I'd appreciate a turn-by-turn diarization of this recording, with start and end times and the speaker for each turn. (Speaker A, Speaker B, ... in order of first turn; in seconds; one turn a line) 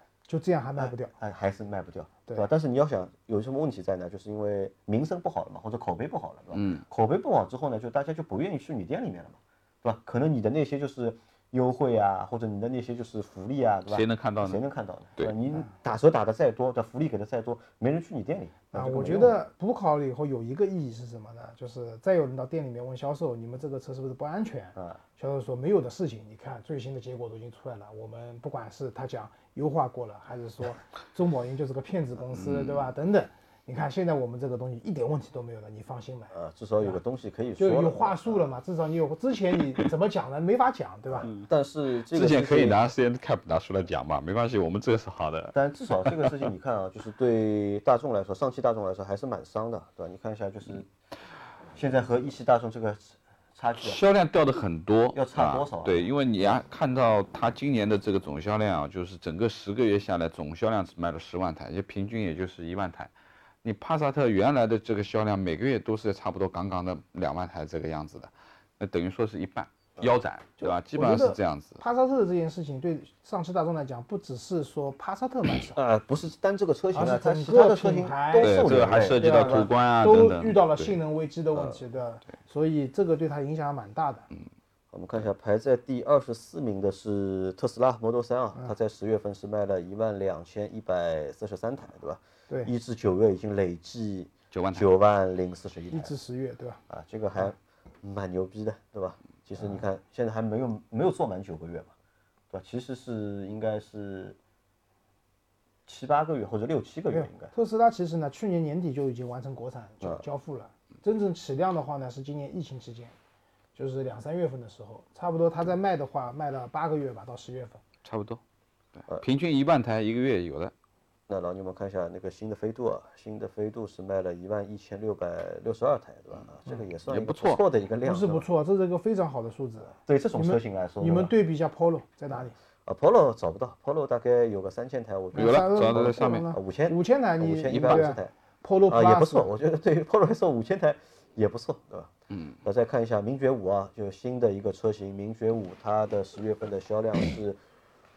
Speaker A: 0.3-1.1
Speaker B: 0.8-19.4
Speaker C: 6.5-6.8
Speaker C: 13.9-14.6
Speaker A: 18.7-37.0
Speaker B: 24.7-25.0
Speaker C: 32.3-32.9
Speaker B: 36.3-38.4
Speaker A: 37.6-41.3
Speaker B: 41.1-42.8
Speaker C: 42.1-45.5
Speaker B: 45.5-50.9
Speaker C: 46.1-46.4
Speaker B: 51.7-54.0
Speaker C: 53.8-63.1
Speaker B: 55.1-56.0
Speaker C: 63.6-71.8
Speaker A: 70.6-75.8
Speaker B: 75.7-79.7
Speaker A: 76.9-84.3
Speaker C: 78.3-81.0
Speaker B: 84.9-96.1
Speaker C: 94.5-94.9
Speaker A: 95.9-96.8
Speaker B: 96.9-101.9
Speaker B: 102.5-104.4
Speaker B: 105.9-107.5
Speaker A: 107.1-113.1
Speaker A: 113.7-117.8
Speaker C: 118.0-118.4
Speaker C: 119.0-120.7
Speaker B: 121.3-128.5
Speaker C: 127.1-127.6
Speaker A: 128.0-132.5
Speaker B: 130.0-131.3
Speaker B: 132.3-138.3
Speaker A: 135.3-139.5
Speaker C: 135.3-136.5
Speaker C: 137.8-138.1
Speaker B: 138.9-142.1
Speaker C: 142.3-142.6
Speaker B: 142.6-147.6